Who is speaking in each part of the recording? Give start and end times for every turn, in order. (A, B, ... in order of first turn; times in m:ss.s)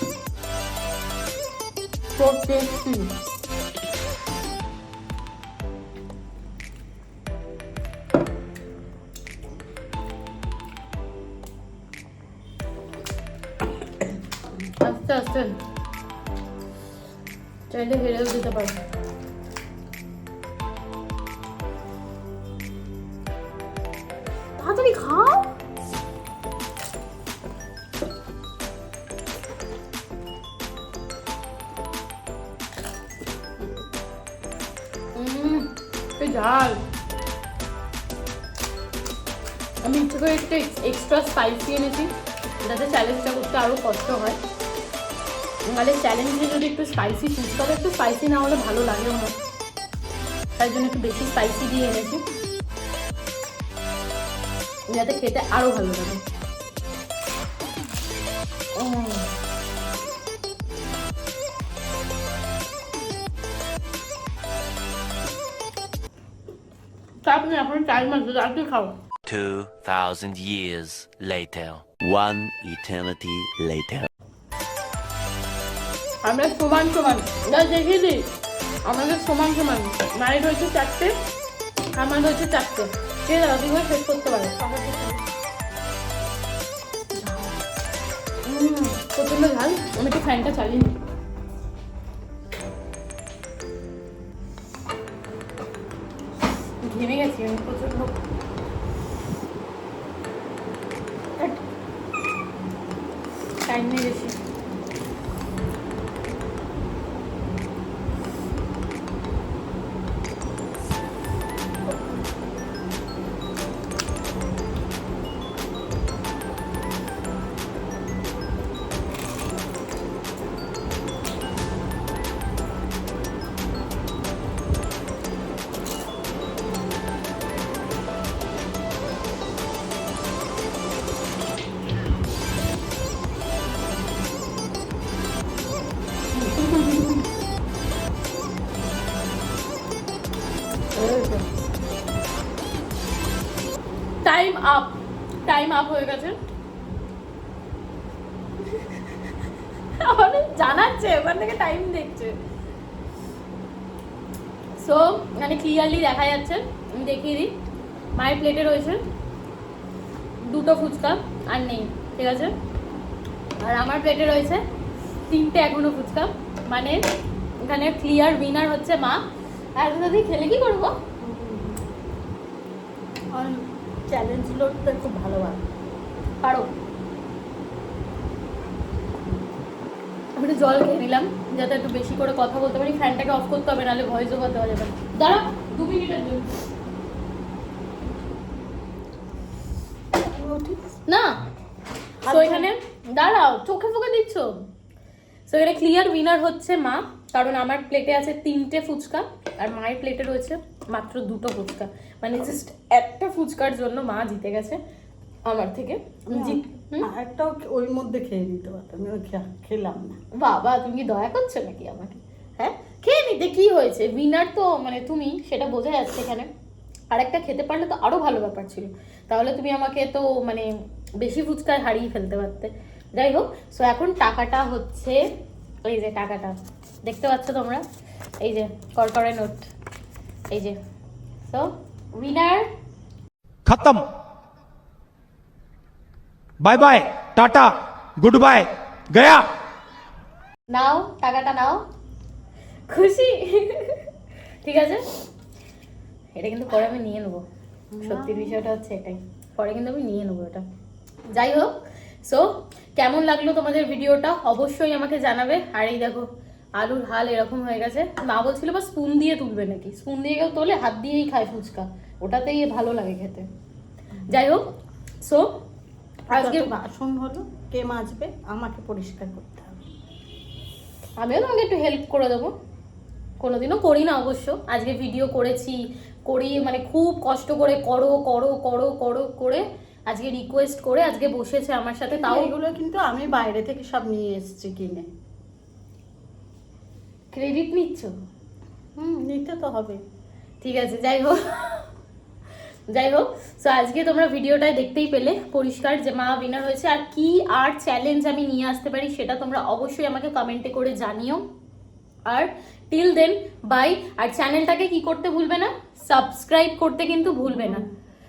0:02.2-0:03.1 A
0:14.8-0:15.6 A
0:17.7-0:18.8 A
0:24.6-0:25.5 A
0:35.2-0:36.8 A
0:39.8-0:42.1 A
0:42.6-0:44.4 A
0:45.6-0:49.3 A
0:50.6-0:52.2 A
0:54.9-0:56.2 A
0:58.8-0:59.3 A
1:07.2-1:09.0 A
1:09.2-1:14.1 B
1:16.2-1:18.2 A
1:18.8-1:21.1 A
1:22.0-1:24.6 A
1:24.6-1:25.2 C
1:27.2-1:27.5 C
1:28.4-1:31.0 A
1:36.8-1:38.1 A
1:43.6-1:44.4 A
2:21.0-2:21.4 A
2:24.2-2:26.4 A
2:28.8-2:29.1 A
2:30.0-2:32.4 A
2:34.8-2:37.5 A
2:38.2-2:39.0 A
2:40.4-2:42.5 A
2:43.6-2:44.6 A
2:45.3-2:47.0 A
2:47.6-2:49.2 A
2:49.8-2:50.9 A
2:51.2-2:51.8 C
2:53.3-2:55.6 C
2:56.4-2:56.7 A
3:00.4-3:06.5 A
3:10.1-3:10.8 C
3:11.1-3:11.4 A
3:12.2-3:12.7 C
3:12.2-3:14.5 A
3:15.5-3:24.8 A
3:25.4-3:27.1 A
3:26.3-3:30.2 C
3:30.4-3:36.5 A
3:37.1-3:45.2 A
3:45.9-3:47.8 A
3:48.4-3:49.7 A
3:50.5-3:50.8 A
3:51.5-3:52.7 A
3:53.6-3:54.1 D
3:56.6-3:59.4 D
4:00.7-4:01.8 A
4:02.9-4:04.1 A
4:04.6-4:05.0 A
4:06.4-4:07.4 A
4:07.9-4:08.6 C
4:08.0-4:10.6 A
4:11.3-4:11.7 A
4:12.2-4:23.5 A
4:24.3-4:24.6 A
4:25.2-4:25.5 A
4:26.3-4:26.7 A
4:26.3-4:29.8 C
4:31.2-4:32.5 A
4:33.4-4:42.5 A
4:42.2-4:45.1 C
4:47.3-4:48.1 A
4:49.0-4:50.0 C
4:50.6-4:51.9 A
4:52.9-5:01.4 A
5:02.3-5:07.8 A
5:07.5-5:07.8 C